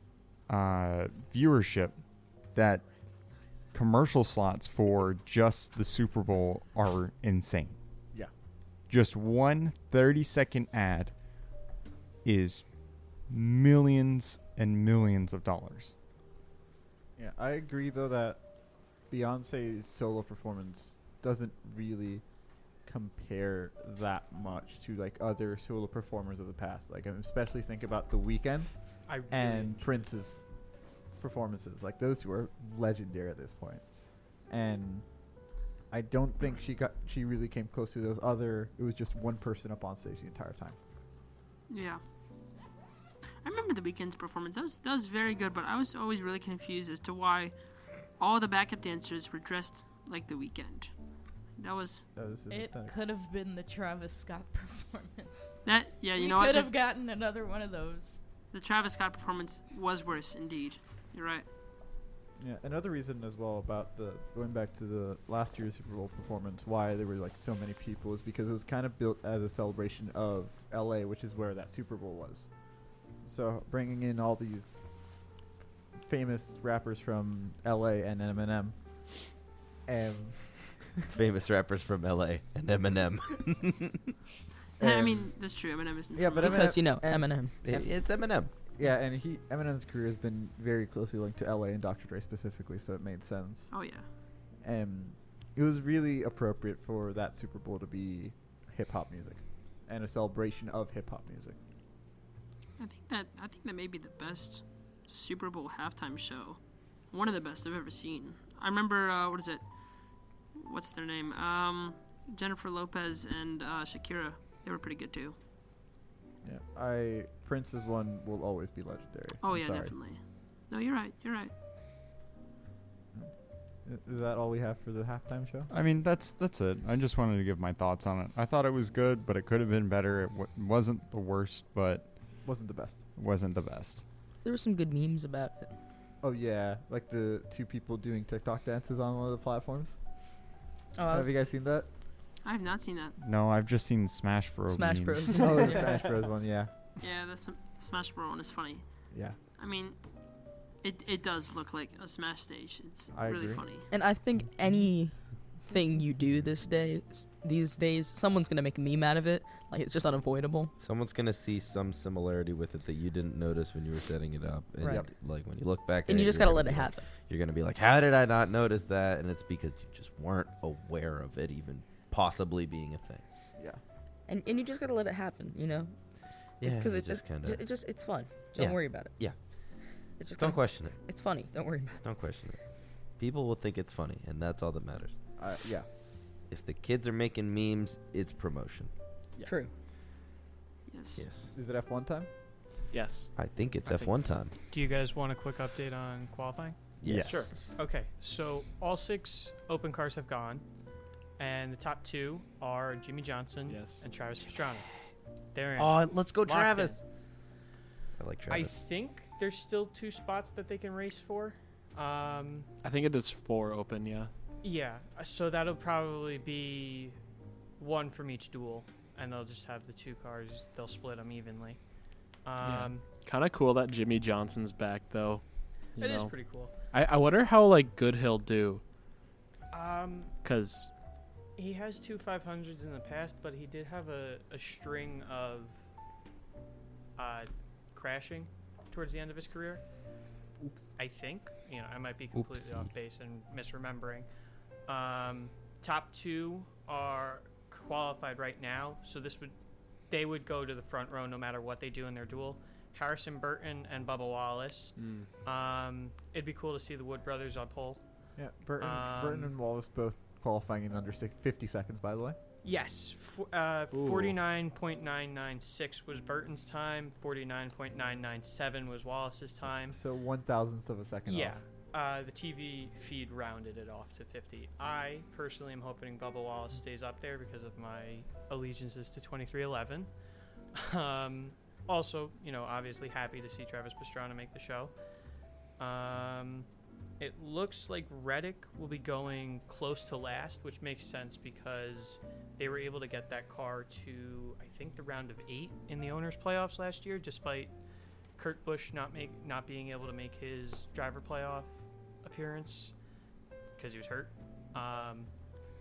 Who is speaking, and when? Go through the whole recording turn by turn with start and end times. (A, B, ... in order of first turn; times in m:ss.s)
0:00.5-0:02.0 A
0:02.5-0:02.8 A
0:03.7-0:07.8 A
0:08.9-0:11.1 A
0:12.2-0:12.6 A
0:13.3-0:15.9 A
0:17.2-0:18.4 B
0:19.1-0:22.2 B
0:22.8-0:28.7 B
0:29.1-0:29.8 C
0:29.3-0:30.4 B
0:31.2-0:33.8 B
0:34.5-0:35.0 B
0:35.9-0:40.8 B
0:41.7-0:42.0 D
0:43.4-0:47.5 D
0:48.2-0:50.9 D
0:51.6-0:52.1 D
0:52.1-0:53.0 B
0:52.5-0:55.6 E
0:55.6-0:56.7 D
0:56.1-0:58.2 E
0:58.5-1:01.4 D
1:02.4-1:12.5 B
1:13.2-1:14.8 B
1:16.1-1:18.8 B
1:19.9-1:20.6 B
1:21.1-1:24.1 F
1:24.8-1:25.3 B
1:24.8-1:26.8 D
1:26.2-1:28.0 B
1:26.4-1:27.6 G
1:27.6-1:28.5 F
1:28.8-1:33.7 B
1:33.7-1:34.0 D
1:34.6-1:41.6 B
1:42.8-1:55.4 D
1:56.4-2:00.0 B
1:59.4-2:01.5 D
2:03.8-2:05.7 B
2:05.7-2:12.0 A
2:12.4-2:13.0 B
2:13.2-2:14.0 A
2:14.4-2:15.7 G
2:16.2-2:20.0 B
2:21.0-2:21.3 G
2:21.1-2:21.9 B
2:22.4-2:23.2 D
2:23.2-2:25.5 A
2:24.7-2:26.0 G
2:25.3-2:26.7 B
2:27.0-2:29.1 D
2:29.1-2:29.4 B
2:29.6-2:30.0 D
2:30.8-2:33.9 D
2:33.1-2:33.6 B
2:33.9-2:40.7 G
2:40.8-2:53.2 F
2:44.8-2:45.1 B
2:46.1-2:47.0 G
2:53.6-2:53.8 B
2:54.3-2:55.9 G
2:56.6-2:57.6 F
2:56.6-2:59.1 G
2:58.6-2:59.4 F
3:00.2-3:02.0 G
3:00.4-3:01.0 F
3:02.0-3:02.6 F
3:03.2-3:05.1 F
3:05.4-3:05.9 B
3:06.5-3:08.9 F
3:09.4-3:09.7 G
3:10.9-3:11.2 D
3:11.2-3:11.5 F
3:11.5-3:12.3 B
3:12.9-3:13.3 H
3:13.4-3:14.5 F
3:13.8-3:14.3 H
3:14.7-3:16.8 C
3:17.0-3:17.4 F
3:17.0-3:17.5 A
3:17.2-3:17.5 H
3:17.8-3:20.6 C
3:21.4-3:24.9 C
3:23.6-3:24.0 H
3:25.5-3:27.0 C
3:25.8-3:27.0 F
3:28.2-3:28.8 F
3:28.5-3:32.7 C
3:32.8-3:34.3 H
3:34.6-3:37.2 C
3:37.8-3:41.8 C
3:42.4-3:43.1 C
3:42.6-3:45.4 H
3:46.0-3:46.7 C
3:46.0-3:46.3 H
3:46.9-3:48.8 H
3:49.7-3:50.3 C
3:50.4-3:50.9 H
3:51.6-3:55.8 C
3:57.2-3:59.8 C
4:01.0-4:04.3 C
4:02.3-4:02.9 F
4:04.9-4:09.5 C
4:10.1-4:18.0 C
4:15.0-4:15.3 H
4:18.4-4:22.4 B
4:18.8-4:19.5 C
4:22.6-4:30.0 C
4:23.9-4:24.4 H
4:29.9-4:31.6 B
4:31.3-4:40.1 C
4:40.7-4:44.9 C
4:45.8-4:46.7 C
4:47.2-4:57.7 C
4:58.4-5:01.7 C
5:02.2-5:02.9 C
5:03.8-5:05.3 C